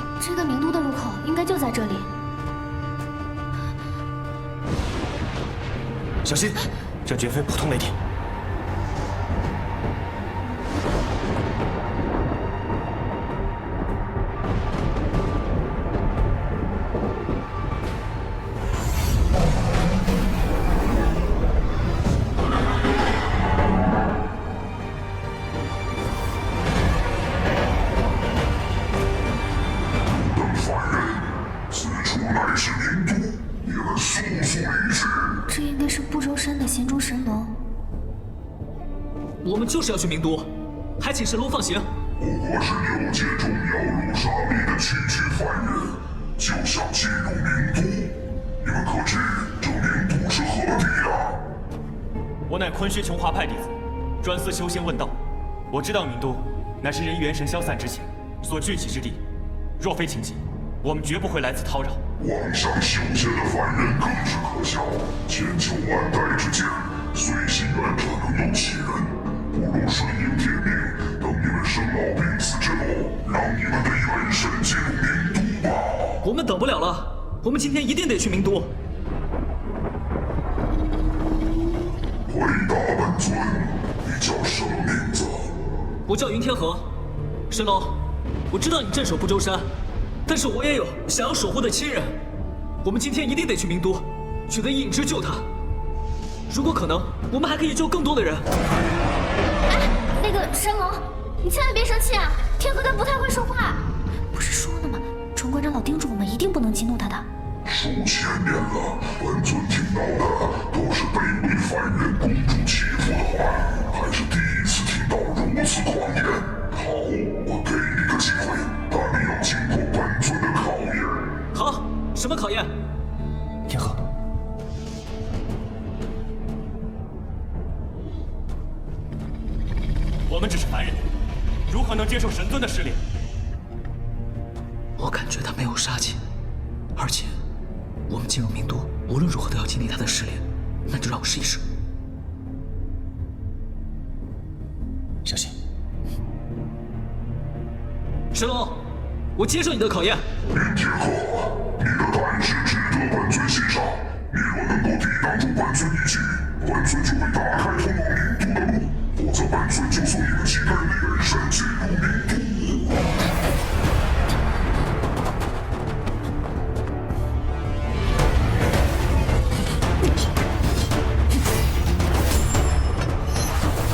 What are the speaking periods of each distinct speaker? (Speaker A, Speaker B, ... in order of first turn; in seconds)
Speaker A: 0.2-2.1, 35.5-37.5, 99.7-107.3
Speaker B: 6.2-7.9, 52.5-55.1, 55.7-59.2, 59.8-62.0, 130.3-131.1, 131.7-133.0
Speaker C: 30.1-35.3, 42.2-51.4, 62.2-76.1, 82.3-85.5, 107.7-121.3, 150.5-162.8
Speaker D: 39.4-41.9, 76.2-78.8, 86.1-86.9, 87.5-89.7, 90.2-92.1, 92.8-95.5, 96.5-98.5, 121.5-122.7, 135.0-136.2, 136.9-137.3, 138.1-141.6, 148.3-150.2